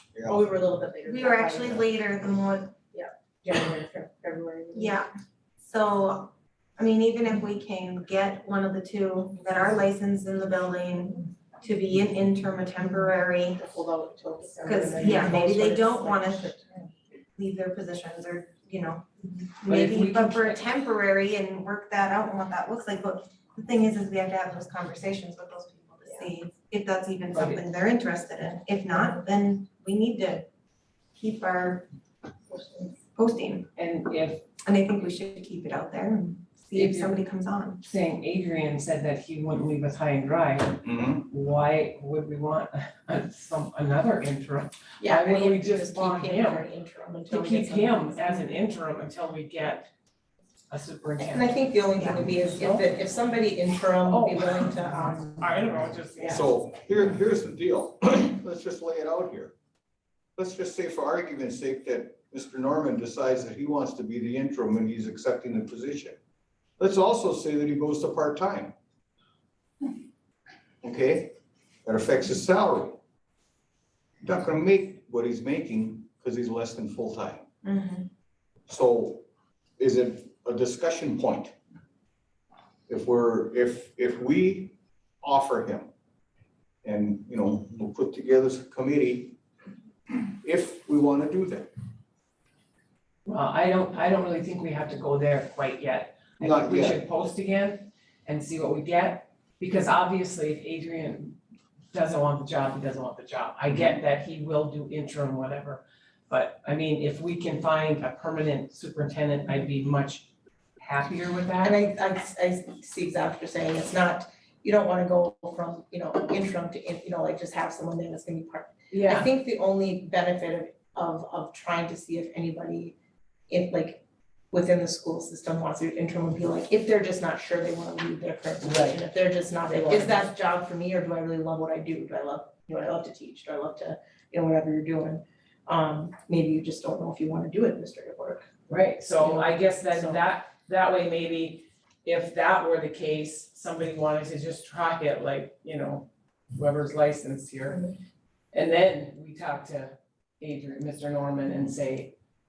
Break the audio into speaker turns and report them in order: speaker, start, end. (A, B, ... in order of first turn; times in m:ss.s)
0:00.1-0:00.5 A
0:00.2-0:01.9 B
0:01.1-0:02.8 C
0:02.9-0:05.0 B
0:04.8-0:05.1 C
0:05.6-0:13.6 C
0:13.5-0:16.9 B
0:14.6-0:16.5 C
0:17.4-0:19.1 C
0:19.6-0:30.5 C
0:19.7-0:20.6 D
0:27.3-0:27.6 D
0:31.2-0:31.9 C
0:32.5-0:32.9 B
0:33.2-0:33.7 C
0:33.8-0:34.4 D
0:34.6-0:37.8 C
0:36.8-0:37.2 D
0:37.8-0:46.7 D
0:40.8-0:41.3 A
0:45.0-0:48.6 B
0:47.3-0:49.9 D
0:50.7-0:52.9 D
0:51.2-0:55.3 B
0:54.1-0:56.5 D
0:56.3-0:59.5 A
1:00.4-1:06.2 A
1:06.8-1:08.8 A
1:10.8-1:11.3 A
1:11.8-1:13.0 A
1:14.2-1:17.5 A
1:17.6-1:18.1 C
1:18.7-1:19.3 A
1:19.8-1:21.6 A
1:22.9-1:25.9 A
1:26.8-1:29.4 A
1:30.1-1:31.7 A
1:33.3-1:41.4 D
1:36.4-1:37.0 A
1:41.9-1:51.8 D
1:51.6-2:03.0 B
1:58.9-1:59.3 D
2:03.5-2:18.5 B
2:08.6-2:09.0 D
2:09.7-2:10.3 D
2:18.7-2:27.8 D
2:19.2-2:20.2 B
2:28.5-2:32.1 D